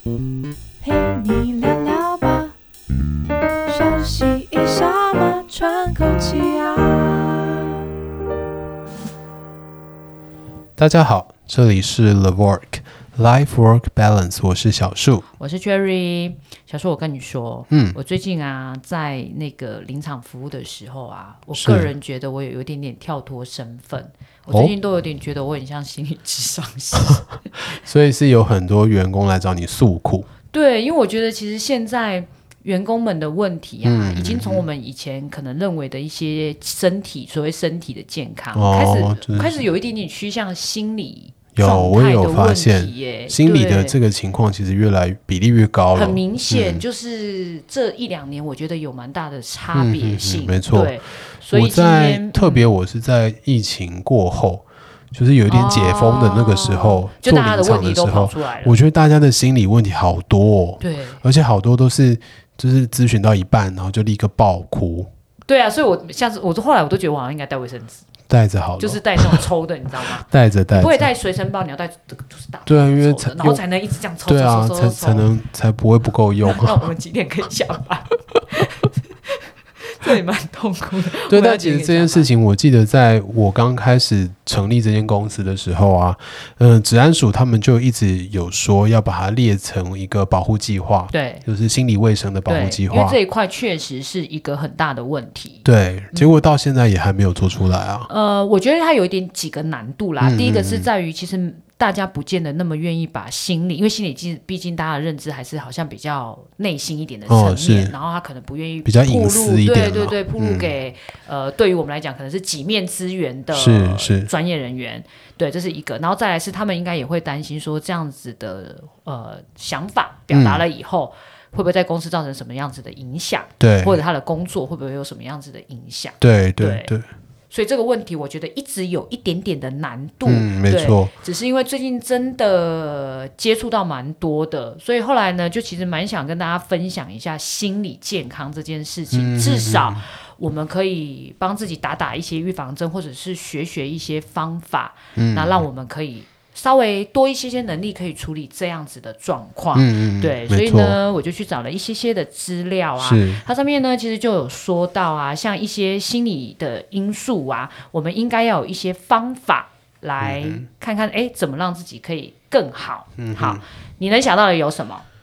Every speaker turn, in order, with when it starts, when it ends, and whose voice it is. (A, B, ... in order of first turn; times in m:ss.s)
0:00.8-0:02.6 A
0:03.7-0:07.8 A
0:10.8-0:15.3 B
0:15.4-0:27.7 C
0:17.7-0:18.0 B
0:21.5-0:21.9 B
0:24.5-0:24.8 B
0:27.8-0:30.3 B
0:30.5-0:44.0 C
0:33.8-0:34.7 B
0:38.5-0:39.5 B
0:41.6-0:46.8 B
0:45.9-0:52.7 C
0:49.7-1:05.1 B
0:55.5-0:58.8 C
1:00.8-1:01.2 C
1:05.4-1:08.0 C
1:08.3-1:09.4 B
1:08.8-1:15.3 C
1:10.2-1:11.1 B
1:12.7-1:13.6 B
1:14.2-1:16.9 B
1:16.4-1:22.3 C
1:21.3-1:33.2 B
1:31.1-1:31.4 C
1:32.5-1:36.4 C
1:35.6-1:38.1 B
1:38.1-2:06.9 C
1:40.2-1:40.9 B
1:47.3-1:48.0 B
1:48.8-1:50.7 B
1:53.5-1:54.3 B
2:00.3-2:00.6 B
2:03.6-2:04.0 B
2:06.2-2:07.1 B
2:07.5-2:45.1 C
2:10.2-2:11.1 B
2:19.1-2:20.0 B
2:25.2-2:25.6 B
2:29.8-2:31.0 B
2:33.0-2:33.4 B
2:40.2-2:40.7 B
2:43.2-2:43.6 B